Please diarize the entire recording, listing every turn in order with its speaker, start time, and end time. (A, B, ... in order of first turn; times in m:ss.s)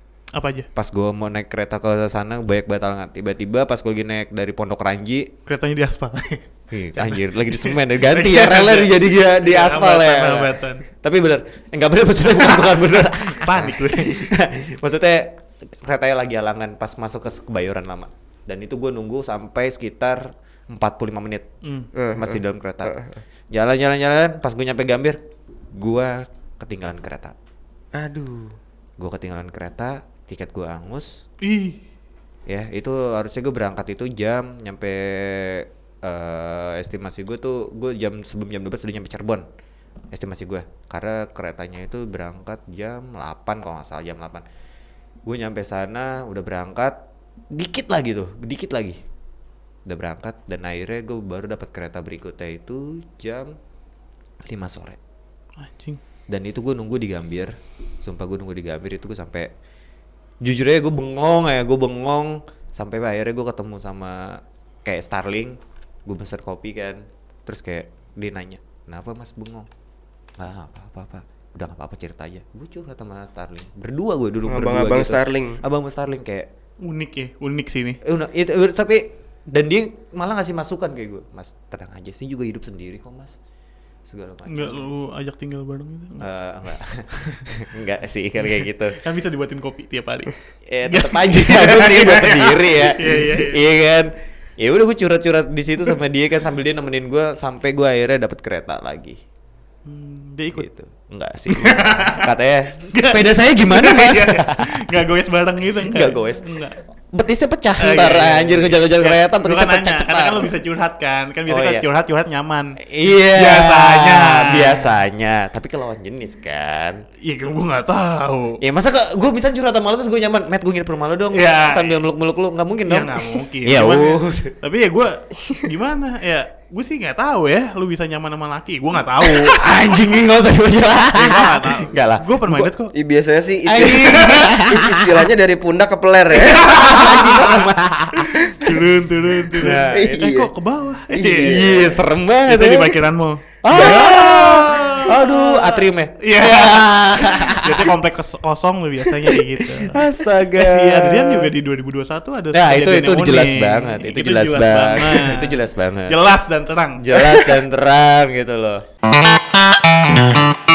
0:00.4-0:00.7 A
0:00.8-0:05.3 B
0:05.5-0:06.4 A
0:06.7-0:21.5 B
0:06.9-0:10.8 A
0:12.4-0:14.3 A
0:21.6-0:21.9 A
0:22.0-0:23.2 C
0:22.2-0:23.0 B
0:23.5-0:25.2 B
0:25.7-0:27.4 B
0:27.9-0:28.6 C
0:29.0-0:31.2 B
0:31.4-0:31.8 A
0:32.5-0:39.5 B
0:40.1-0:44.4 B
0:45.2-0:47.0 B
0:47.5-0:49.0 B
0:49.9-0:53.5 B
0:54.4-0:55.0 B
0:55.6-0:56.0 A
0:56.3-0:59.5 B
1:00.4-1:09.7 B
1:10.4-1:16.5 B
1:14.5-1:15.6 C
1:16.8-1:18.0 A
1:18.0-1:23.4 B
1:24.1-1:24.8 B
1:24.5-1:26.2 A
1:26.2-1:29.0 B
1:27.2-1:27.4 A
1:29.0-1:33.6 A
1:30.7-1:39.2 B
1:39.9-1:40.6 A
1:40.6-1:44.7 B
1:41.5-1:46.8 A
1:45.8-1:50.5 B
1:47.8-1:52.8 A
1:51.5-1:51.8 B
1:52.9-1:57.0 B
1:53.3-1:54.8 A
1:57.2-1:58.6 A
1:58.6-2:04.6 B
2:01.3-2:02.0 A
2:02.9-2:09.6 A
2:09.2-2:12.7 B
2:11.1-2:12.9 A
2:12.9-2:17.7 C
2:13.6-2:15.2 B
2:14.1-2:14.5 A
2:16.5-2:18.4 B
2:16.6-2:17.3 A
2:18.4-2:21.9 A
2:19.6-2:20.3 B
2:19.9-2:20.5 C
2:21.1-2:22.0 C
2:21.4-2:23.0 B
2:22.5-2:30.0 A
2:23.6-2:27.9 B
2:23.7-2:24.1 C
2:29.9-2:31.5 B
2:30.6-2:37.1 A
2:32.5-2:36.2 B
2:37.0-2:38.8 B
2:37.2-2:37.6 C